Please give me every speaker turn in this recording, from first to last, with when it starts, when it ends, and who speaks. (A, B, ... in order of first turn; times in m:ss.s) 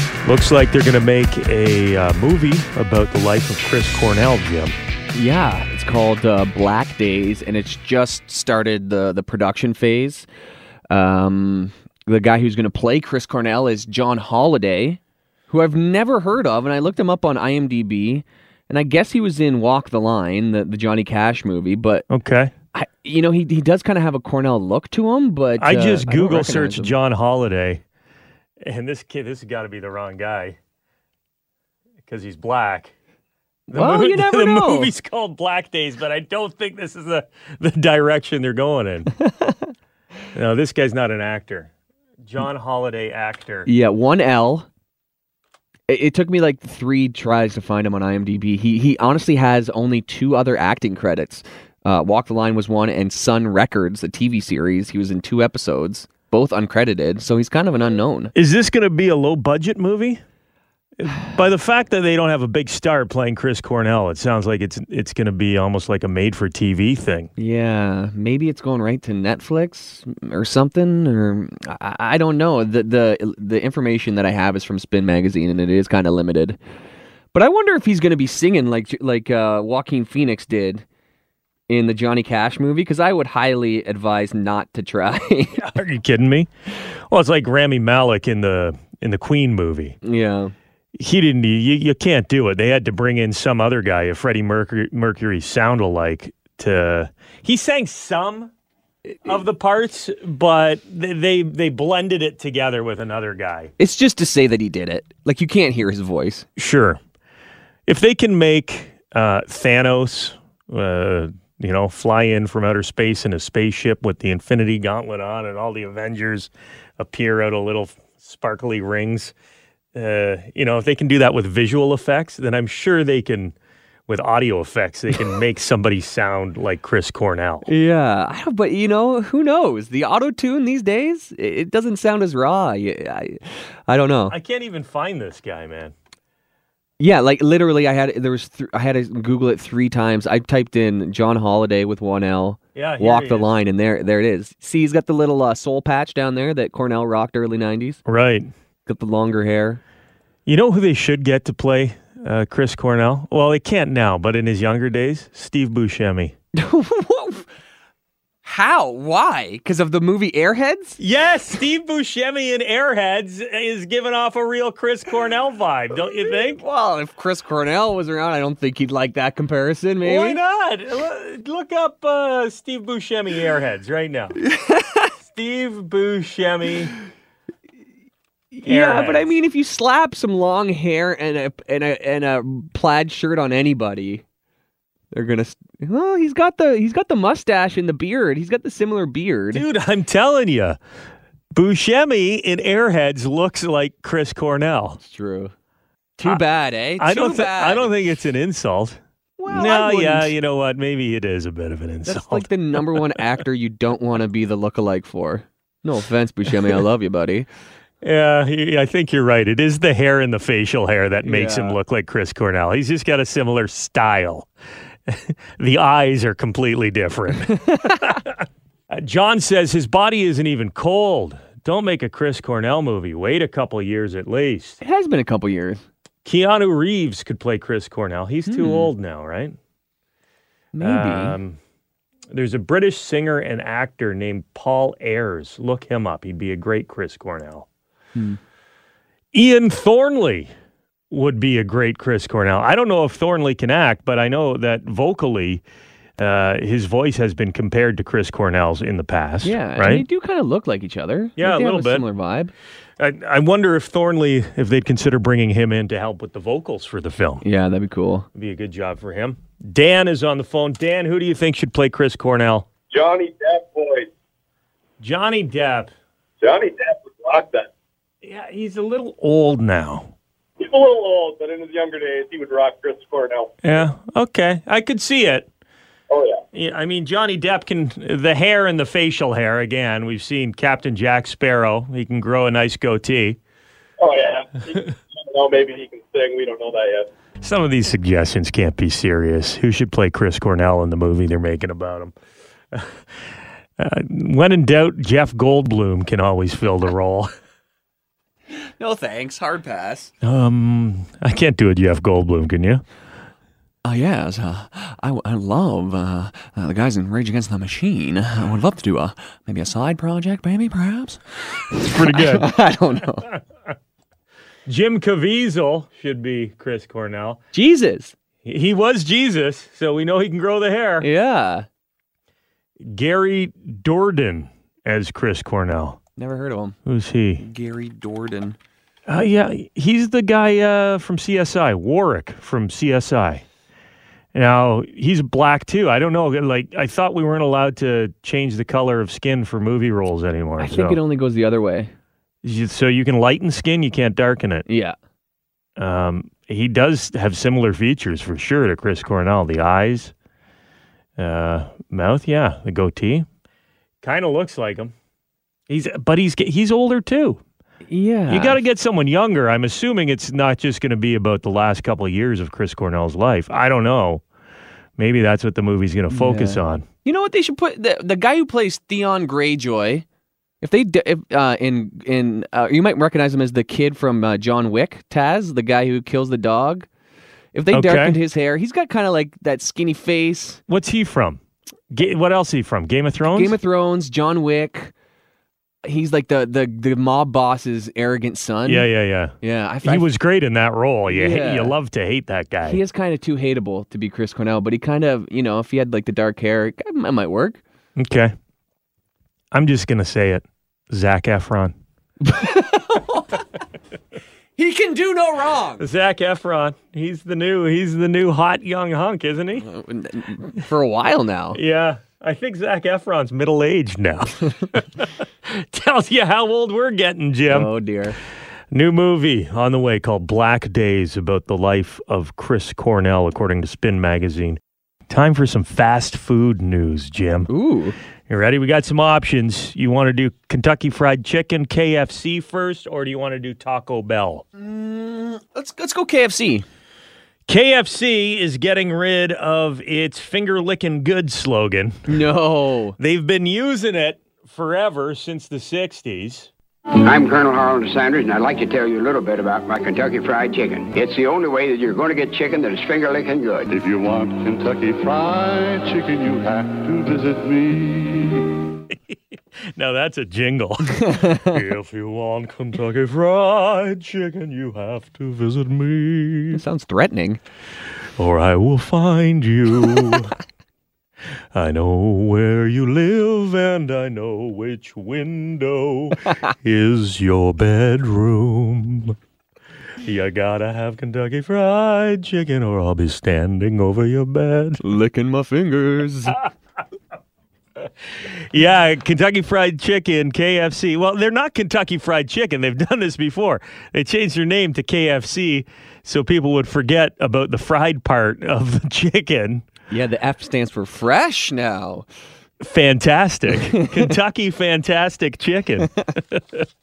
0:00.2-0:04.8 A
0:05.1-0:10.3 B
0:10.9-0:22.0 B
0:22.1-0:22.5 A
0:22.7-0:26.9 B
0:25.6-0:27.8 A
0:28.6-0:30.6 A
0:32.0-0:32.9 A
0:33.7-0:34.9 B
0:33.7-0:39.1 A
0:39.2-0:39.7 B
0:40.3-0:41.7 A
0:42.2-0:43.7 A
0:43.6-0:44.7 B
0:45.9-0:58.3 B
0:58.3-1:00.2 A
1:01.0-1:07.3 A
1:07.4-1:16.6 B
1:17.3-1:20.8 B
1:21.7-1:25.6 B
1:25.5-1:26.5 A
1:27.1-1:30.0 A
1:30.0-1:30.5 B
1:31.0-1:38.5 A
1:39.2-1:43.7 A
1:43.8-1:46.5 B
1:46.6-1:47.0 A
1:47.9-1:59.3 A
1:59.9-2:03.5 A
2:04.1-2:07.7 A
2:07.6-2:14.4 B
2:14.3-2:15.9 A
2:17.0-2:28.0 B
2:22.7-2:23.5 A
2:28.0-2:28.5 A
2:28.9-2:29.8 B
2:30.4-2:36.3 A
2:36.6-2:37.5 B
2:38.4-2:41.0 B
2:41.0-2:46.6 A
2:46.5-2:50.4 B
2:50.0-2:54.4 A
2:54.4-2:55.1 B
2:55.2-2:56.9 A
2:58.5-3:04.2 B
2:58.6-2:59.3 A
3:05.1-3:09.6 B
3:09.5-3:10.8 A
3:11.5-3:15.0 A
3:15.0-3:15.5 B
3:16.2-3:16.4 A
3:16.2-3:18.2 B
3:17.0-3:19.0 A
3:19.4-3:20.3 B
3:19.5-3:23.2 A
3:22.1-3:27.5 B
3:28.0-3:34.5 A
3:31.2-3:31.8 B
3:35.1-3:44.8 A
3:37.6-3:38.1 B
3:44.8-3:45.8 B
3:46.2-3:49.6 A
3:48.5-3:48.9 B
3:50.7-3:51.4 B
3:50.8-3:51.6 A
3:52.3-3:57.7 A
3:59.3-4:00.5 A
4:01.1-4:05.6 A
4:06.2-4:10.0 A
4:09.4-4:12.5 B
4:11.4-4:12.0 A
4:13.0-4:17.4 A
4:17.4-4:18.3 B
4:18.3-4:22.7 A
4:22.9-4:24.1 C
4:25.0-4:25.9 A
4:26.4-4:27.7 C
4:28.2-4:30.1 A
4:30.6-4:33.8 C
4:33.6-4:35.5 A
4:36.1-4:36.4 C
4:36.5-4:43.4 A
4:44.0-4:47.1 C
4:47.4-4:52.1 A
4:53.8-4:57.3 A
4:58.8-5:00.1 B
5:00.2-5:02.8 A
5:03.8-5:13.3 B
5:11.8-5:12.5 A
5:14.7-5:17.4 A
5:17.5-5:18.1 B
5:18.4-5:21.1 A
5:21.0-5:21.6 B
5:22.8-5:26.0 A
5:26.2-5:26.8 B
5:26.8-5:27.4 A
5:27.4-5:28.6 B
5:29.1-5:33.4 A
5:34.3-5:41.0 A
5:40.6-5:41.9 B
5:42.4-5:44.6 A
5:44.7-5:45.0 B
5:45.8-5:50.1 A
5:51.2-5:53.2 A
5:54.0-5:54.9 A
5:55.7-5:57.4 A
5:57.9-5:58.6 B
5:58.3-6:04.2 A
6:05.0-6:06.8 A
6:06.1-6:10.0 B
6:10.6-6:16.9 B
6:17.5-6:20.6 B
6:17.7-6:18.2 A
6:20.7-6:21.4 A
6:21.9-6:23.6 A
6:23.3-6:24.9 B
6:25.8-6:28.9 B
6:28.6-6:32.8 A
6:29.4-6:30.1 B
6:31.1-6:31.8 B
6:32.6-6:37.6 B
6:38.0-6:38.3 A
6:39.5-6:41.7 A
6:42.2-6:43.4 B
6:44.6-6:45.9 B
6:45.8-6:49.6 A
6:49.6-6:51.6 B
6:51.5-6:57.7 A
6:57.5-6:58.2 B
6:58.7-7:07.5 A
7:07.5-7:08.0 B
7:08.3-7:14.4 A
7:14.5-7:16.6 B
7:17.5-7:22.1 A
7:22.1-7:23.0 B
7:23.0-7:26.5 A
7:27.0-7:33.7 D
7:33.7-7:38.5 E
7:38.9-7:39.2 A
7:39.8-7:46.6 A
7:40.9-7:41.6 B
7:46.5-7:47.4 B
7:48.2-7:50.3 A
7:51.5-7:59.2 A
8:00.0-8:04.8 A
8:04.8-8:06.4 B
8:08.2-8:19.6 A
8:19.9-8:22.1 B
8:22.6-8:26.6 A
8:23.6-8:24.1 B